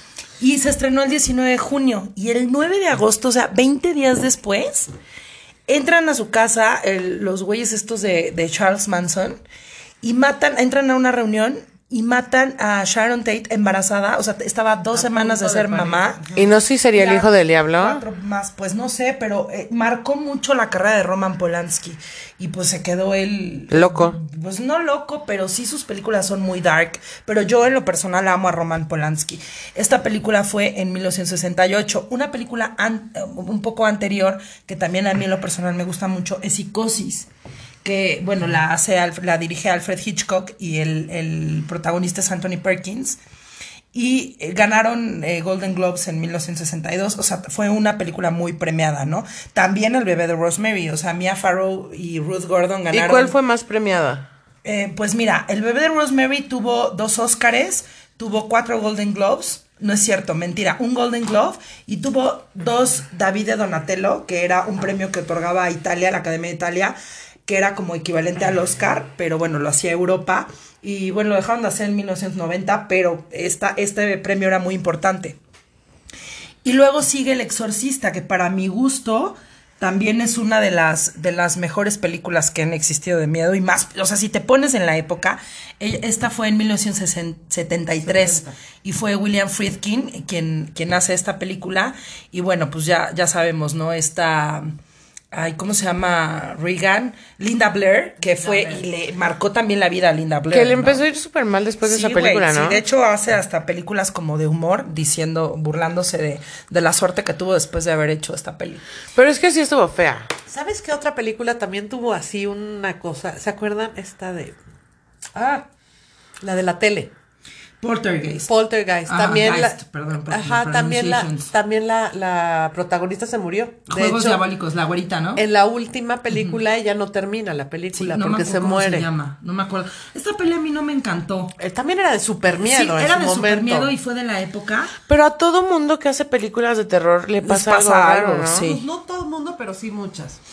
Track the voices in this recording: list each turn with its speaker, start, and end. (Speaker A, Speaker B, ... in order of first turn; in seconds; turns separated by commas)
Speaker A: 0.4-4.9, Speaker A: 5.7-9.4, Speaker A: 10.0-16.3, Speaker B: 14.9-16.5, Speaker C: 16.4-18.0, Speaker A: 16.9-37.3, Speaker C: 23.7-24.2, Speaker A: 37.8-43.2, Speaker A: 43.9-53.4, Speaker C: 52.9-54.3, Speaker A: 54.6-67.0, Speaker A: 67.5-75.4, Speaker A: 76.6-94.8, Speaker A: 95.3-101.0, Speaker B: 98.3-98.8, Speaker C: 100.5-102.8, Speaker A: 101.8-108.8, Speaker C: 109.2-110.3, Speaker B: 110.5-114.6, Speaker A: 115.4-115.6, Speaker B: 116.4-117.1, Speaker A: 117.8-118.5, Speaker B: 118.5-124.4, Speaker A: 119.1-121.5, Speaker A: 123.9-125.4, Speaker B: 125.4-129.1, Speaker A: 126.3-126.6, Speaker A: 127.9-131.6, Speaker B: 131.6-133.9, Speaker A: 132.7-134.9, Speaker C: 135.1-138.7, Speaker A: 137.4-138.8, Speaker B: 138.5-140.4